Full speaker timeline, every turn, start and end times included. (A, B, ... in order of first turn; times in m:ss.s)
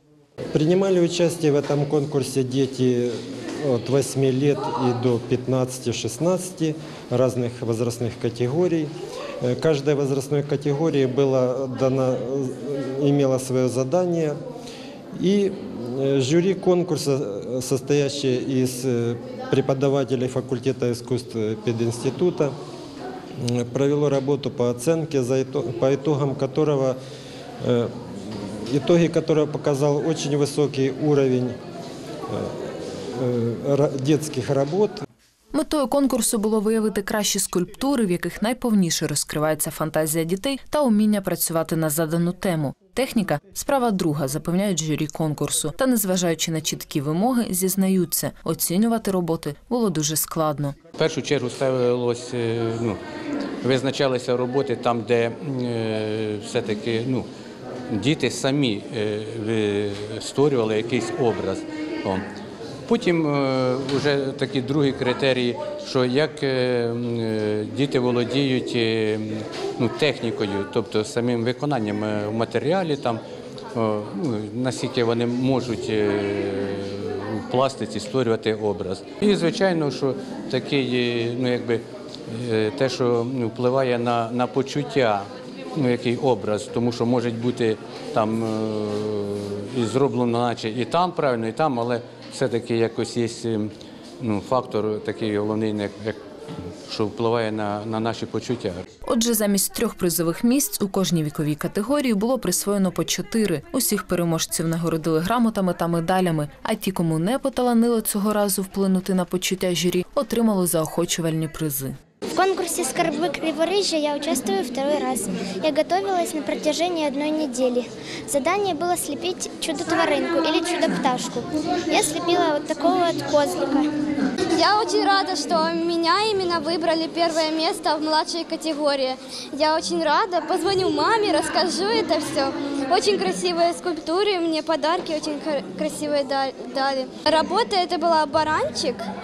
0:00.5-0:08.9 A
0:09.4-0:14.4 A
0:15.2-0:22.5 A
0:23.4-0:27.0 A
0:27.6-0:31.5 A
0:32.3-0:35.0 A
0:35.5-0:50.8 B
0:51.0-0:53.0 C
0:53.6-0:57.3 C
0:57.9-1:02.2 C
1:02.9-1:13.2 C
1:13.7-1:36.2 C
1:36.9-1:38.8 C
1:39.0-1:52.0 B
1:52.3-2:03.9 D
2:04.6-2:19.1 E